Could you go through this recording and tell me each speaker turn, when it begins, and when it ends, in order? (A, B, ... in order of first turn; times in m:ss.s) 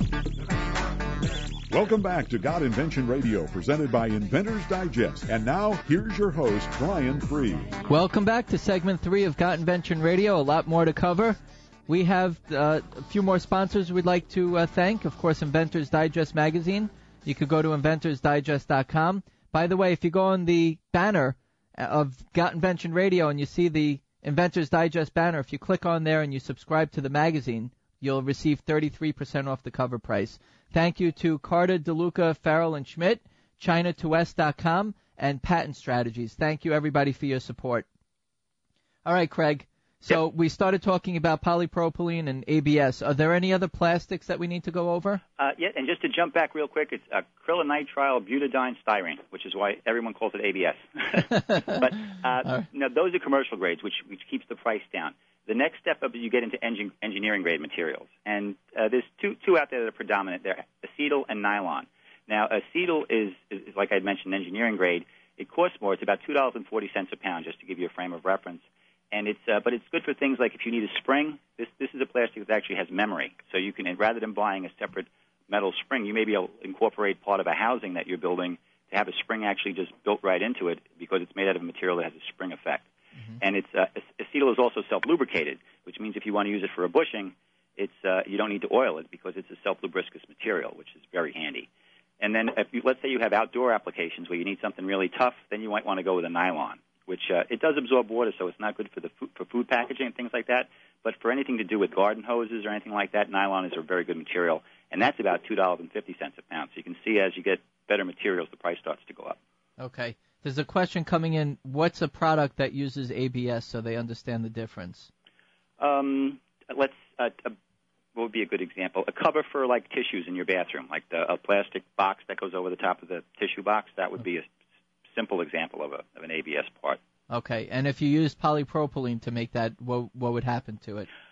0:01.7-0:07.8 A
0:07.9-0:37.9 B
0:39.0-0:45.2 B
0:45.4-1:22.9 C
0:51.5-0:51.8 B
1:23.4-1:31.7 C
1:32.2-1:49.4 C
1:49.8-1:55.1 B
1:55.8-1:57.6 C
1:58.2-2:04.5 C
2:05.1-2:07.0 C
2:07.3-2:11.1 B